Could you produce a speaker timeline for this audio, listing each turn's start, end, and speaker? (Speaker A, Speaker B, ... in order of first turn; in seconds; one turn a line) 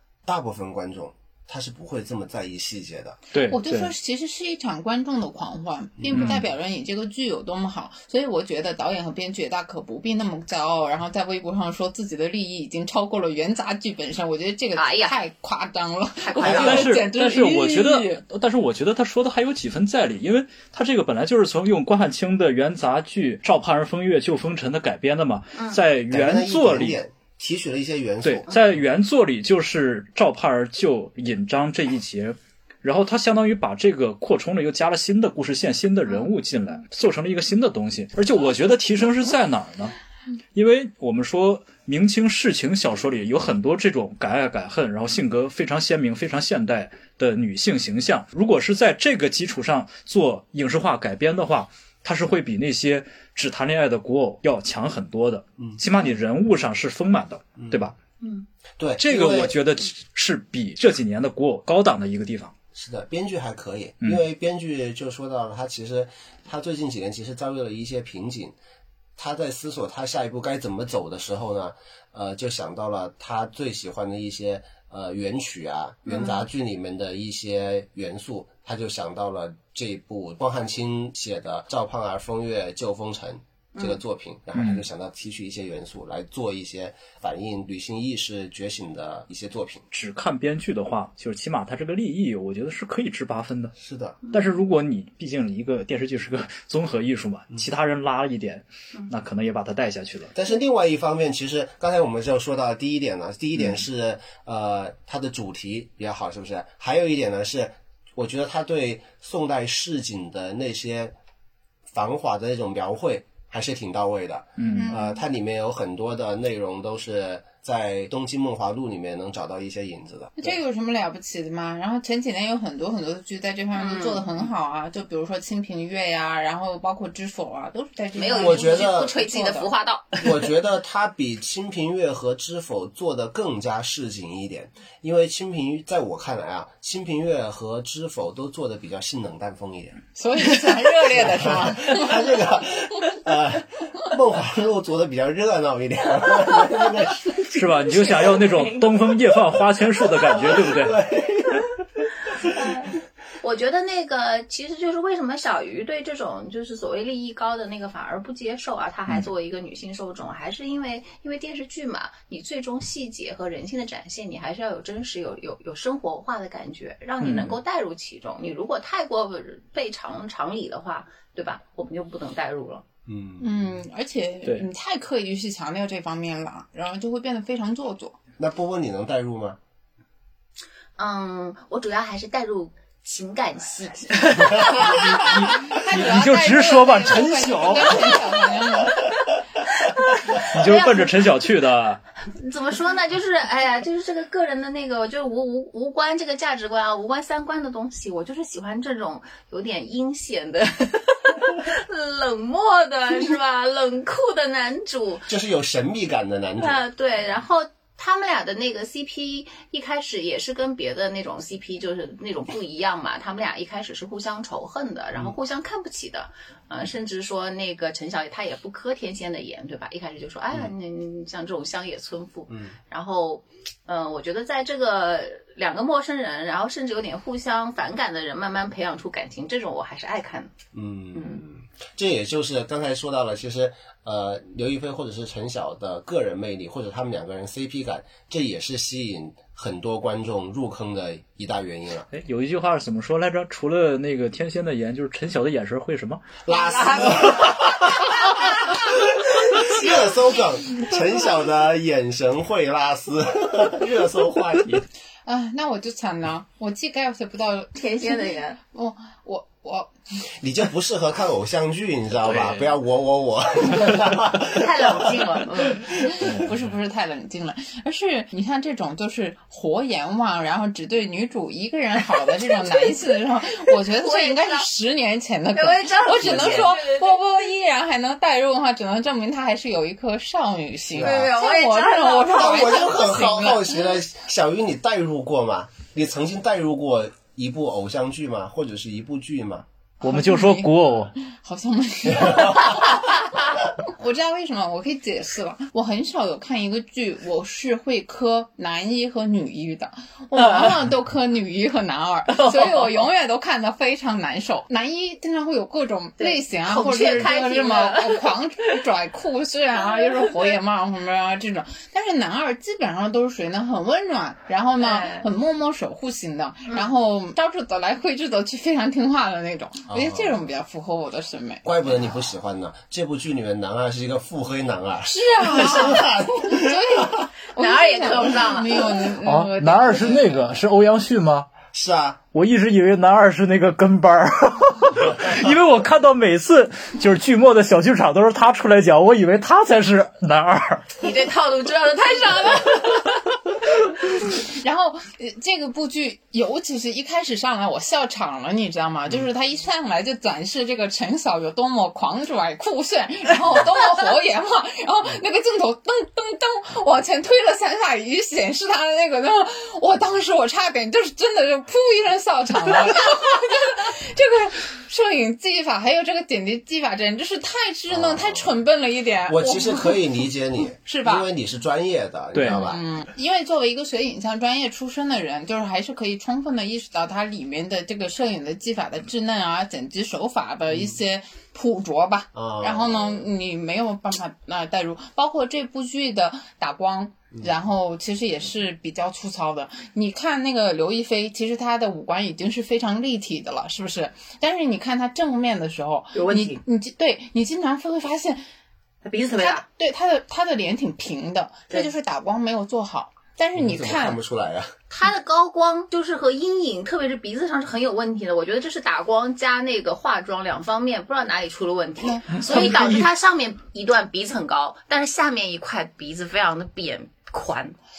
Speaker A: 0.2-3.2
Speaker B: 3.3-3.9
Speaker C: 3.5-18.2
Speaker A: 6.0-6.3
Speaker B: 6.1-6.4
Speaker D: 14.7-15.2
Speaker D: 16.2-17.0
Speaker B: 16.4-27.0
Speaker A: 26.1-28.5
Speaker B: 28.2-39.9
Speaker B: 40.5-57.9
Speaker A: 57.6-57.9
Speaker D: 58.2-58.5
Speaker A: 58.8-59.5
Speaker B: 59.0-62.5
Speaker A: 62.7-68.5
Speaker A: 69.2-89.8
Speaker D: 76.0-76.4
Speaker B: 84.5-84.8
Speaker B: 89.9-93.7
Speaker A: 93.8-94.2
Speaker D: 94.2-94.6
Speaker B: 94.3-100.3
Speaker A: 100.3-111.1
Speaker A: 111.9-120.6
Speaker B: 114.6-114.9
Speaker C: 114.7-115.2
Speaker C: 120.4-129.7
Speaker D: 123.7-124.3
Speaker D: 128.1-130.3
Speaker A: 128.3-129.1
Speaker A: 130.2-140.0
Speaker C: 140.1-142.2
Speaker A: 141.1-147.4
Speaker B: 147.5-151.0
Speaker D: 148.0-148.9
Speaker A: 150.1-152.0
Speaker D: 152.3-172.8
Speaker B: 167.2-167.6
Speaker A: 173.1-173.7
Speaker C: 173.4-178.2
Speaker A: 178.4-179.6
Speaker D: 181.0-185.4
Speaker B: 184.8-188.2
Speaker C: 185.2-189.1
Speaker D: 189.8-191.2
Speaker B: 190.3-192.0
Speaker D: 192.2-205.3
Speaker A: 205.3-206.8
Speaker D: 206.6-230.5
Speaker A: 222.5-222.8
Speaker A: 230.7-242.1
Speaker D: 231.1-231.4
Speaker B: 242.1-246.3
Speaker A: 246.4-254.8
Speaker D: 246.5-250.2
Speaker C: 255.2-259.9
Speaker D: 257.7-258.6
Speaker A: 260.4-266.3
Speaker B: 262.2-262.7
Speaker D: 264.4-265.9
Speaker C: 266.1-283.7
Speaker B: 266.2-266.6
Speaker D: 272.4-272.9
Speaker D: 273.7-274.7
Speaker D: 275.5-277.2
Speaker A: 276.2-276.7
Speaker A: 280.9-281.3
Speaker D: 280.9-282.9
Speaker A: 282.3-289.6
Speaker C: 290.0-293.2
Speaker B: 290.0-291.1
Speaker A: 292.2-292.6
Speaker C: 293.7-321.6
Speaker D: 300.4-300.7
Speaker D: 302.3-302.9
Speaker D: 306.2-308.3
Speaker D: 314.8-315.3
Speaker A: 319.9-320.4
Speaker A: 321.6-327.3
Speaker C: 325.0-330.4
Speaker D: 327.6-329.1
Speaker B: 329.2-331.5
Speaker A: 331.7-332.2
Speaker B: 332.3-340.9
Speaker D: 341.0-343.2
Speaker C: 344.3-370.1
Speaker A: 367.9-368.5
Speaker A: 369.2-372.8
Speaker C: 370.8-371.3
Speaker B: 372.3-372.6
Speaker C: 372.5-398.4
Speaker A: 382.3-383.3
Speaker D: 396.1-396.6
Speaker D: 399.0-399.6
Speaker C: 399.3-404.2
Speaker A: 403.5-404.7
Speaker D: 404.9-417.8
Speaker B: 412.3-413.1